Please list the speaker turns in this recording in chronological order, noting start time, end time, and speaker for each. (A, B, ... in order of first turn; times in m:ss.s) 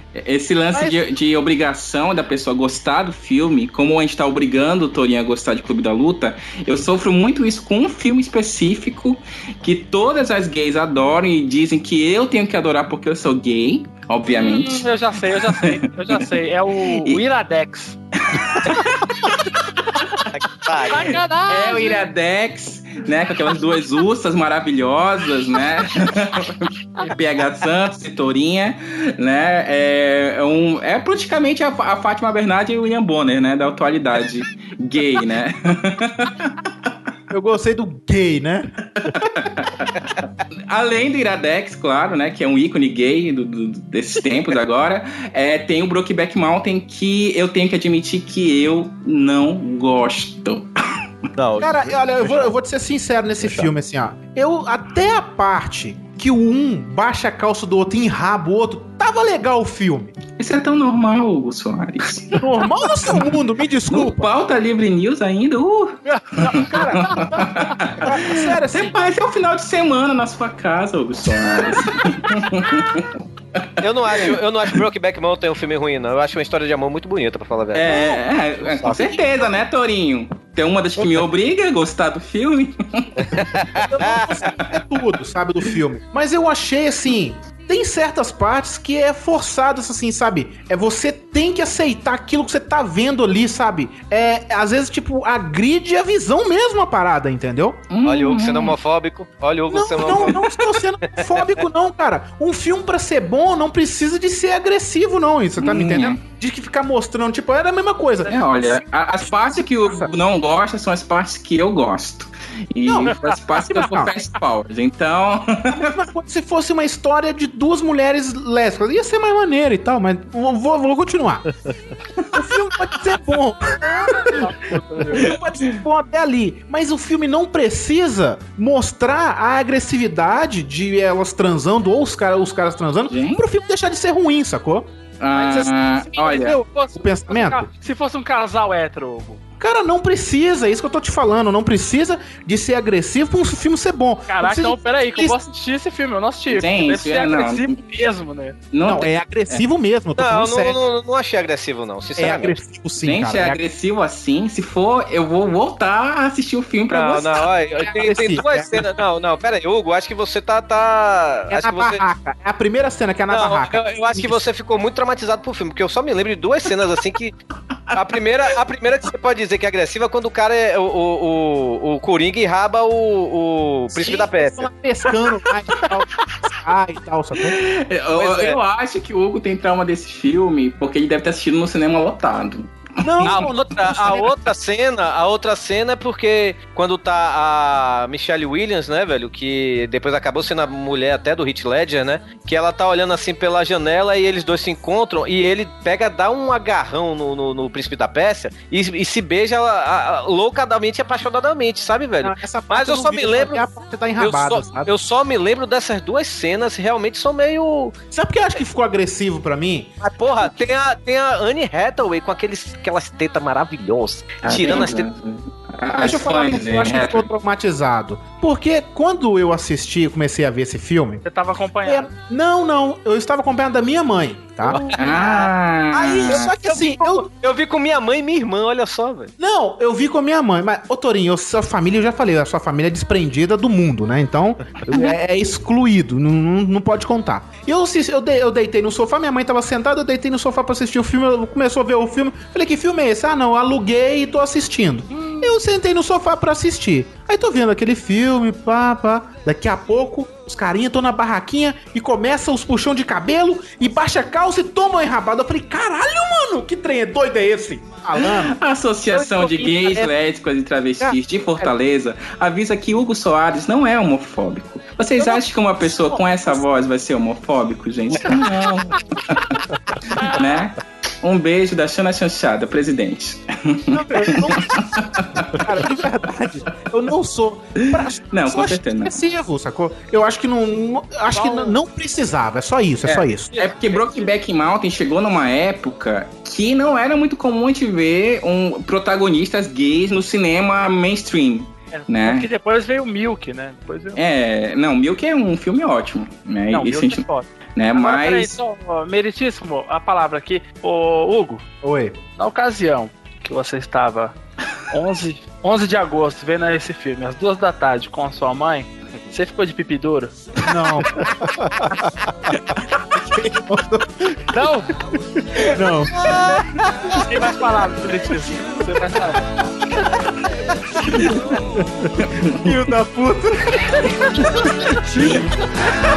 0:00.1-0:17.2 A
0:14.3-0:18.0 B
0:18.2-0:19.8 A
0:20.3-0:21.1 C
0:20.9-0:22.0 B
0:20.9-0:36.9 A
0:37.3-0:38.7 D
0:38.9-0:40.0 A
0:40.7-0:50.7 A
0:51.4-0:52.5 E
0:51.6-1:00.1 D
0:53.4-0:53.7 E
1:00.4-1:02.4 A
1:02.3-1:04.3 D
1:03.9-1:14.4 A
1:06.4-1:09.0 D
1:13.8-1:18.2 C
1:17.7-1:23.2 A
1:18.6-1:19.4 E
1:23.5-1:24.3 C
1:23.8-1:37.8 D
1:37.9-1:38.8 A
1:38.0-1:40.4 C
1:39.7-1:48.3 D
1:45.6-1:46.2 A
1:48.3-1:56.0 A
1:49.3-1:50.1 D
1:52.8-1:54.1 D
1:55.7-2:01.5 D
2:02.3-2:04.4 D
2:03.8-2:05.4 B
2:05.0-2:14.9 D
2:13.1-2:13.4 A
2:15.2-2:16.6 A
2:15.3-2:19.4 B
2:16.9-2:17.7 D
2:19.6-2:25.4 D
2:24.3-2:28.6 B
2:26.5-2:27.8 A
2:28.7-2:29.6 A
2:28.8-2:30.8 D
2:30.2-2:32.6 C
2:32.2-2:33.6 D
2:33.0-2:37.4 A
2:36.9-2:42.0 C
2:37.8-2:38.8 D
2:41.5-2:44.4 D
2:43.3-2:47.4 C
2:47.9-2:54.7 C
2:53.9-2:57.6 D
2:57.4-3:03.4 A
2:58.2-2:58.6 C
3:03.0-3:04.3 D
3:03.2-3:03.5 B
3:03.2-3:23.6 C
3:22.2-3:24.9 D
3:24.2-3:27.9 C
3:28.1-3:29.9 D
3:30.0-3:35.1 C
3:34.4-3:37.3 A
3:36.0-3:41.2 D
3:41.2-3:42.1 B
3:41.8-3:47.3 D
3:44.7-3:45.5 C
3:44.9-3:46.5 A
3:46.3-3:49.3 C
3:49.4-4:18.5 D
4:05.1-4:05.5 B
4:18.2-4:29.6 A
4:19.1-4:20.1 D
4:21.0-4:21.7 D
4:25.2-4:26.6 D
4:30.1-4:35.6 A
4:30.2-4:30.5 B
4:33.9-4:34.8 D
4:35.4-4:43.5 D
4:37.8-4:39.2 A
4:41.3-4:41.8 B
4:43.0-4:52.5 A
4:43.5-4:44.3 B
4:51.9-4:54.2 B
4:54.1-4:58.5 A
4:56.7-5:01.6 B
5:01.8-5:02.2 D
5:02.4-5:04.3 B
5:04.9-5:10.3 B
5:10.6-5:11.2 D
5:11.4-5:12.0 E
5:13.1-5:14.4 D
5:14.5-5:15.0 B
5:15.7-5:16.2 D
5:17.1-5:19.4 B
5:20.0-5:20.3 B
5:22.4-5:22.7 A
5:22.4-5:24.7 D
5:25.2-5:25.4 B